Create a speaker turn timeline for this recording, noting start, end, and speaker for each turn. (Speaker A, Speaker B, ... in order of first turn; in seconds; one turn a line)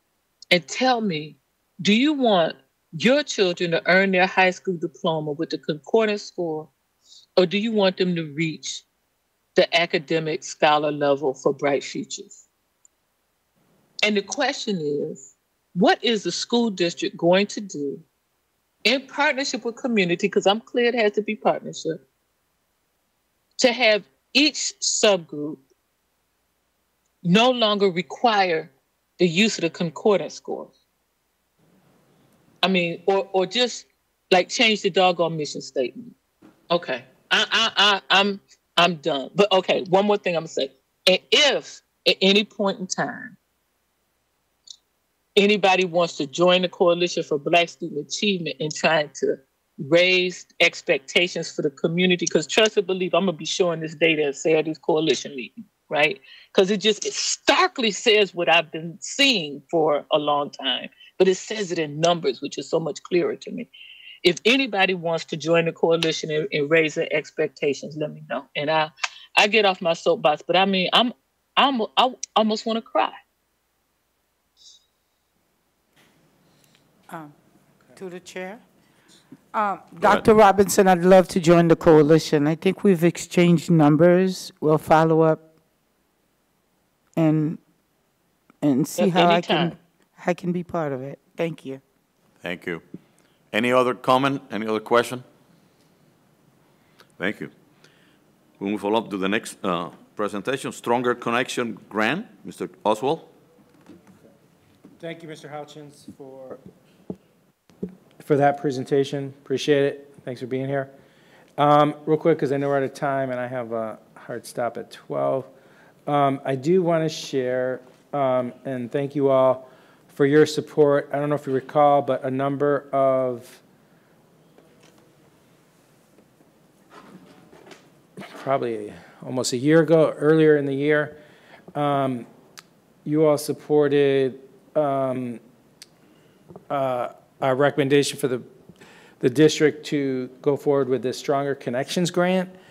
Speaker A: 0.5-6.7
Speaker A: 7.4-8.8
Speaker A: 9.6-12.4
Speaker A: 14.0-18.0
Speaker A: 18.9-22.0
Speaker A: 23.6-25.6
Speaker A: 27.2-30.7
Speaker A: 32.6-36.1
Speaker A: 36.7-43.4
Speaker A: 45.4-63.7
Speaker A: 64.2-73.2
Speaker B: 77.1-77.3
Speaker B: 78.0-78.6
Speaker B: 79.5-85.4
Speaker C: 80.0-80.3
Speaker B: 87.2-87.6
Speaker B: 88.6-91.8
Speaker A: 89.0-89.8
Speaker C: 92.4-92.8
Speaker C: 93.5-95.2
Speaker C: 97.2-97.5
Speaker C: 98.6-103.3
Speaker D: 105.0-106.6
Speaker D: 108.2-110.9
Speaker D: 111.6-115.5
Speaker D: 116.1-123.6
Speaker D: 128.3-131.2
Speaker D: 131.8-132.3
Speaker D: 133.1-135.4
Speaker D: 136.7-138.5
Speaker D: 139.2-142.5